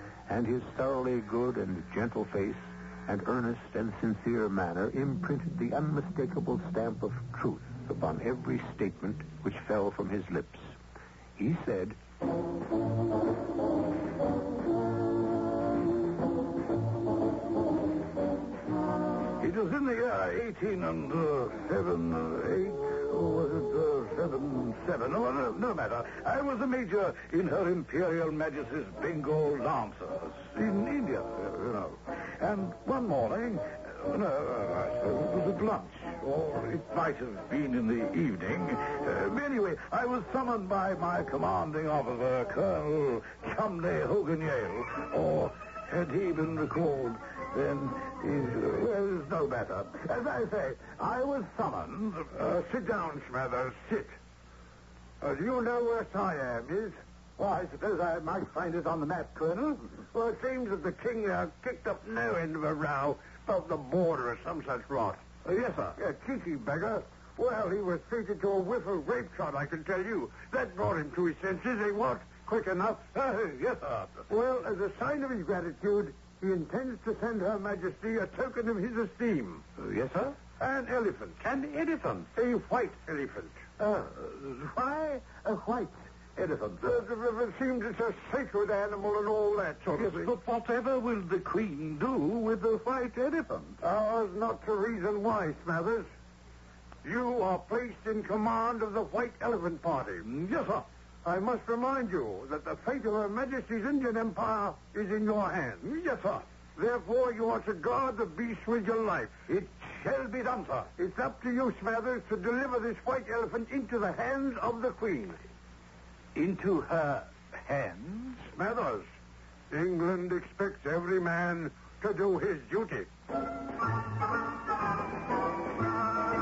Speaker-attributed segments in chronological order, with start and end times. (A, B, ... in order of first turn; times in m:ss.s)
0:00.3-0:10.7 A
0:11.4-0:12.0 A
0:19.4-0:52.3 B
0:52.3-0:54.2 C
0:55.2-0:57.0 C
0:57.4-1:00.0 B
1:00.1-1:05.2 C
1:05.4-1:06.0 B
1:05.9-1:13.5 C
1:13.3-1:14.2 B
1:14.3-1:19.6 C
1:19.8-1:20.5 B
1:20.5-1:23.7 C
1:23.8-1:26.8 B
1:26.8-1:30.3 C
1:30.0-1:33.8 B
1:33.8-1:36.1 C
1:37.0-1:40.3 C
1:40.2-1:40.9 B
1:41.2-1:49.4 C
1:49.5-1:50.9 B
1:51.0-1:55.4 C
1:56.3-1:58.5 B
1:58.5-1:59.0 C
1:59.7-2:03.1 C